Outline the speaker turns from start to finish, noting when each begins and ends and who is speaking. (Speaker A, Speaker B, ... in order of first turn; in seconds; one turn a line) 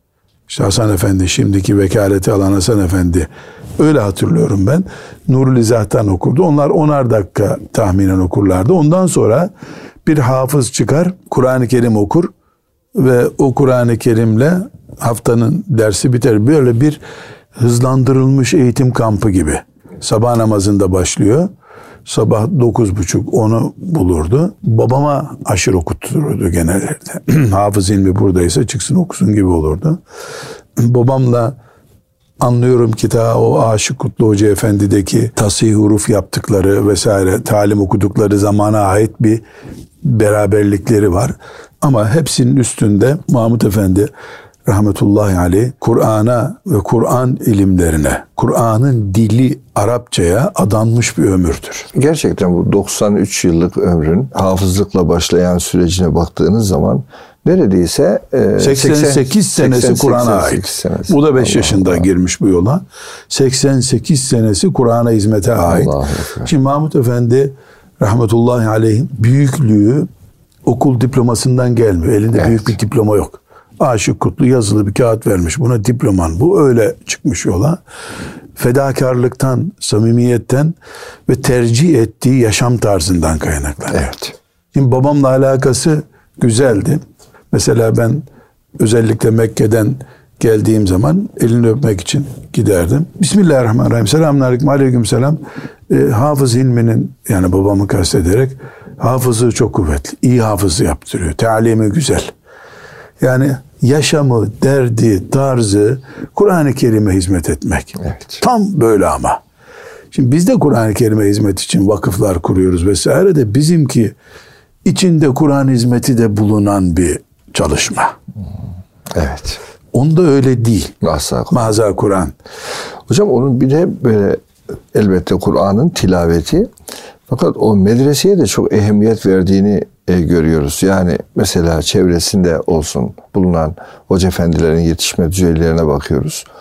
Speaker A: 0.5-9.5
Speaker A: 10.0-12.3
Speaker A: 12.9-17.0
Speaker A: 17.6-21.5
Speaker A: 22.1-30.0
Speaker A: 30.8-31.6
Speaker A: 32.4-39.4
Speaker A: 40.0-44.1
Speaker A: 44.6-51.9
Speaker B: 51.9-62.0
Speaker A: 58.6-65.9
Speaker B: 65.6-66.5
Speaker A: 66.4-70.1
Speaker A: 70.6-77.8
Speaker B: 72.3-72.6
Speaker A: 78.5-80.7
Speaker A: 81.3-84.2
Speaker B: 83.9-84.3
Speaker A: 84.7-87.0
Speaker A: 87.5-88.2
Speaker A: 88.8-102.3
Speaker A: 103.2-109.4
Speaker B: 108.0-108.4
Speaker A: 110.1-114.1
Speaker A: 114.8-118.1
Speaker B: 119.1-119.6
Speaker A: 119.9-121.0
Speaker B: 121.0-121.6
Speaker A: 121.5-122.3
Speaker B: 123.1-126.7
Speaker B: 127.3-136.4